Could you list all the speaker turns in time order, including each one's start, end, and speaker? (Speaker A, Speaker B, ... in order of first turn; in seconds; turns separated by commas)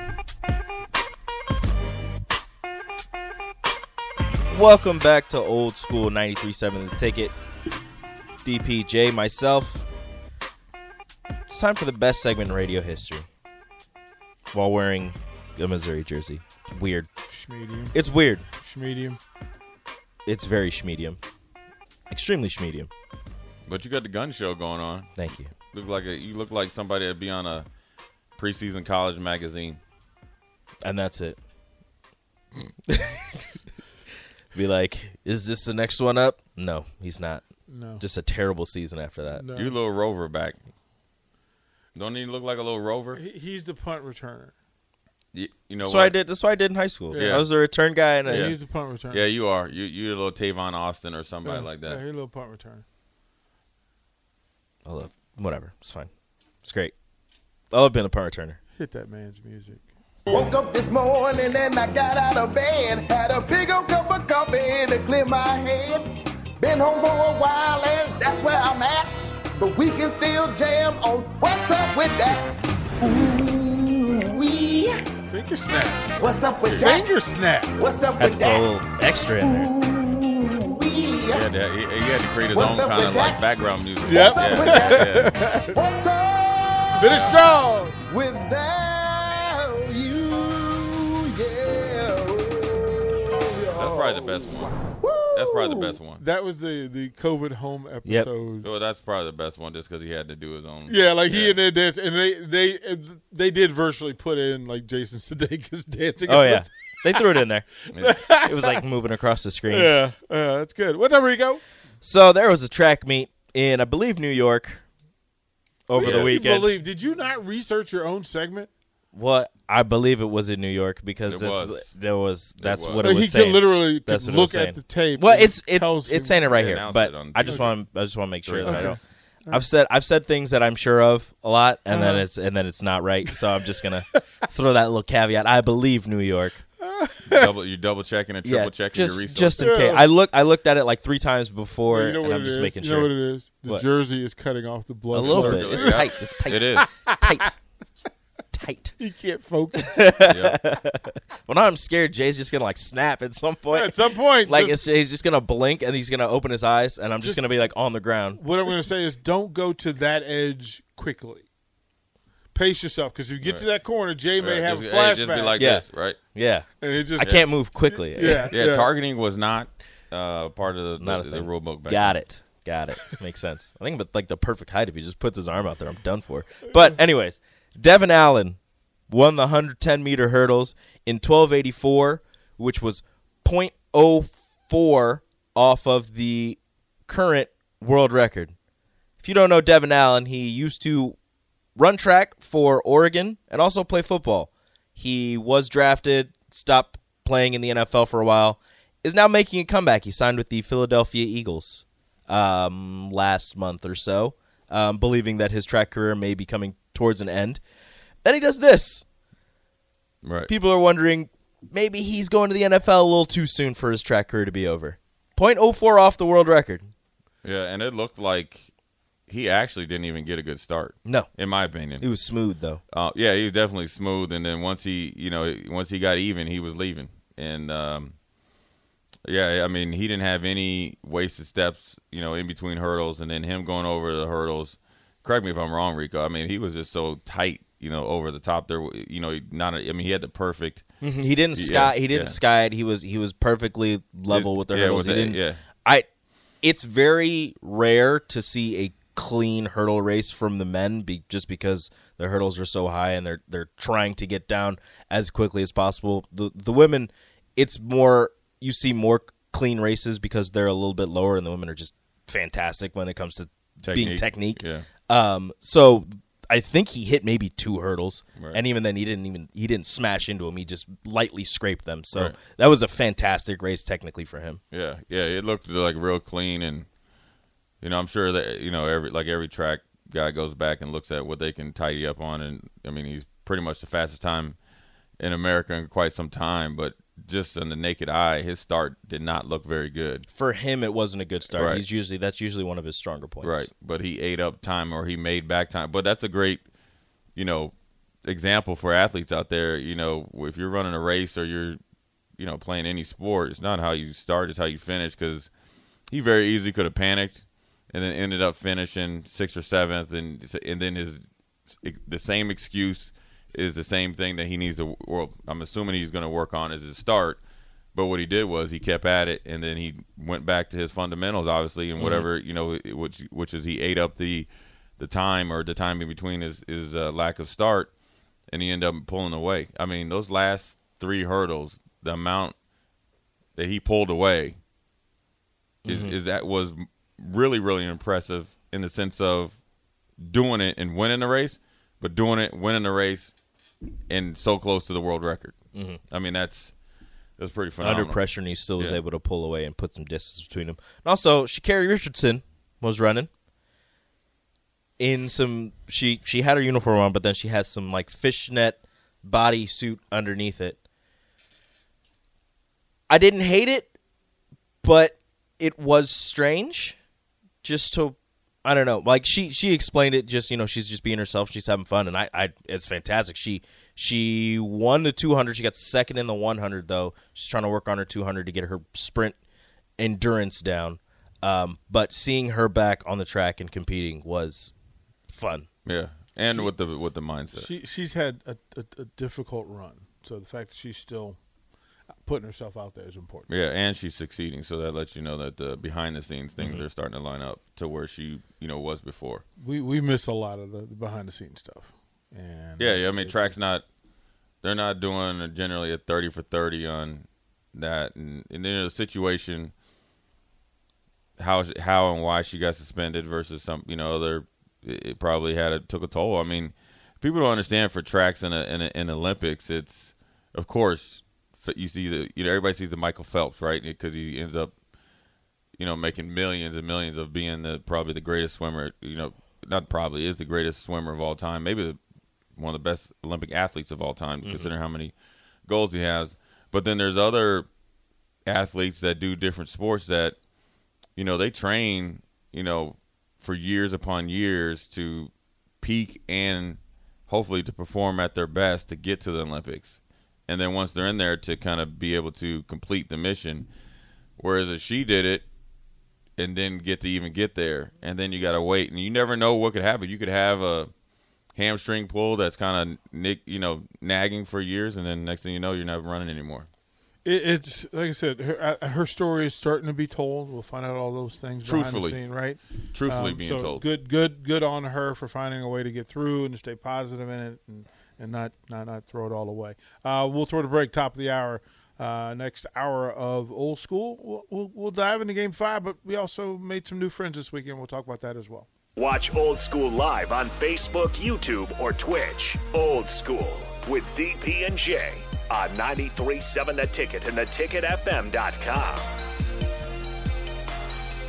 Speaker A: 4.5-7.3, Speaker A: 8.4-9.9, Speaker A: 11.5-13.3, Speaker A: 14.5-17.1, Speaker B: 17.3-17.9, Speaker A: 17.9-18.4, Speaker B: 18.6-19.2, Speaker A: 20.3-21.2, Speaker A: 22.1-22.9, Speaker C: 23.7-25.1, Speaker A: 25.2-25.5, Speaker C: 25.7-27.7, Speaker C: 28.4-29.8, Speaker A: 30.8-31.4, Speaker A: 32.9-33.4, Speaker A: 34.5-37.5, Speaker B: 37.7-38.0, Speaker A: 38.0-39.5, Speaker B: 39.4-39.8, Speaker C: 39.5-40.6, Speaker C: 42.0-43.2, Speaker B: 43.1-44.5, Speaker C: 45.3-46.2, Speaker A: 45.8-48.5, Speaker C: 47.1-47.5, Speaker C: 48.3-48.6, Speaker B: 48.3-49.3, Speaker C: 49.1-52.0, Speaker B: 51.5-52.8, Speaker A: 54.9-56.1, Speaker A: 56.6-57.0, Speaker A: 57.7-58.6, Speaker B: 58.8-59.9, Speaker D: 60.3-75.1, Speaker B: 75.3-76.3, Speaker D: 76.2-77.1, Speaker C: 76.5-76.9, Speaker B: 76.9-77.8, Speaker D: 77.8-78.7, Speaker A: 78.2-79.7, Speaker D: 79.4-81.5, Speaker C: 81.3-85.3, Speaker D: 82.5-83.4, Speaker D: 84.0-85.1, Speaker B: 84.0-85.8, Speaker D: 85.7-87.4, Speaker B: 87.0-88.0, Speaker C: 87.1-87.4, Speaker D: 88.1-96.0, Speaker C: 93.8-96.2, Speaker B: 96.2-98.7, Speaker C: 98.6-101.6, Speaker B: 100.9-107.3, Speaker A: 106.3-107.8, Speaker C: 107.9-108.2, Speaker B: 108.0-108.8, Speaker A: 108.4-109.9, Speaker B: 109.8-111.6, Speaker A: 112.0-114.9, Speaker A: 115.9-116.7, Speaker C: 116.0-116.4, Speaker B: 116.0-118.7, Speaker A: 119.1-136.6, Speaker C: 121.3-122.0, Speaker C: 122.6-123.1, Speaker B: 123.1-126.5, Speaker C: 126.4-127.7, Speaker B: 127.5-127.7, Speaker C: 128.4-129.0, Speaker B: 128.7-129.6, Speaker B: 132.0-132.2, Speaker B: 136.9-137.5, Speaker C: 137.3-139.7, Speaker A: 138.4-143.1, Speaker B: 139.6-140.1, Speaker B: 141.9-146.1, Speaker C: 145.1-146.9, Speaker A: 145.2-147.5, Speaker B: 146.9-147.3, Speaker A: 148.5-149.0, Speaker B: 149.0-150.1, Speaker A: 149.9-158.4, Speaker C: 150.3-150.6, Speaker B: 153.7-154.9, Speaker B: 158.4-161.4, Speaker B: 162.5-165.6, Speaker C: 164.4-166.2, Speaker A: 165.6-168.5, Speaker B: 166.8-167.4, Speaker C: 167.2-167.7, Speaker B: 168.0-168.9, Speaker C: 168.5-172.2, Speaker A: 171.0-188.6, Speaker A: 189.2-191.2, Speaker A: 191.8-207.6, Speaker A: 208.2-209.1, Speaker C: 210.2-210.5, Speaker A: 210.5-216.9, Speaker C: 217.4-218.7, Speaker C: 219.3-222.1, Speaker A: 221.1-221.3, Speaker A: 222.0-222.8, Speaker C: 222.9-228.2, Speaker C: 229.2-240.8, Speaker A: 241.0-246.1, Speaker C: 241.5-242.4, Speaker C: 244.3-245.6, Speaker A: 246.6-274.6, Speaker C: 263.8-264.9, Speaker C: 268.4-268.6, Speaker C: 274.7-276.9, Speaker C: 277.8-284.6, Speaker C: 285.2-290.3, Speaker A: 290.3-293.7, Speaker C: 291.5-291.9, Speaker C: 293.4-296.6, Speaker C: 297.4-301.8, Speaker C: 302.4-305.5, Speaker C: 306.1-317.4, Speaker C: 317.9-327.9, Speaker A: 322.0-322.3, Speaker C: 328.5-332.6, Speaker C: 333.6-334.6, Speaker A: 335.9-336.1, Speaker C: 335.9-339.6, Speaker C: 340.2-343.3, Speaker C: 344.1-345.6, Speaker A: 345.8-346.0, Speaker C: 346.1-346.7, Speaker C: 347.4-348.2, Speaker A: 347.8-353.3, Speaker C: 348.8-349.0, Speaker A: 355.0-360.8, Speaker A: 363.1-363.9, Speaker A: 364.8-367.0, Speaker A: 367.6-379.4, Speaker A: 380.0-384.7, Speaker A: 385.3-385.7, Speaker C: 385.9-387.7, Speaker B: 387.5-391.4, Speaker B: 392.2-393.5, Speaker C: 393.5-399.4, Speaker A: 396.6-396.8, Speaker B: 399.6-403.5, Speaker C: 402.8-403.9, Speaker C: 404.6-409.7, Speaker C: 411.4-424.7, Speaker C: 425.8-432.0, Speaker C: 432.6-435.1, Speaker A: 434.4-434.7, Speaker C: 435.7-437.7, Speaker C: 438.5-440.4, Speaker C: 441.2-453.7, Speaker C: 454.4-455.5, Speaker C: 456.4-460.9, Speaker C: 461.6-466.7, Speaker B: 467.2-488.7, Speaker C: 471.6-472.3, Speaker C: 472.9-473.9, Speaker E: 489.0-499.1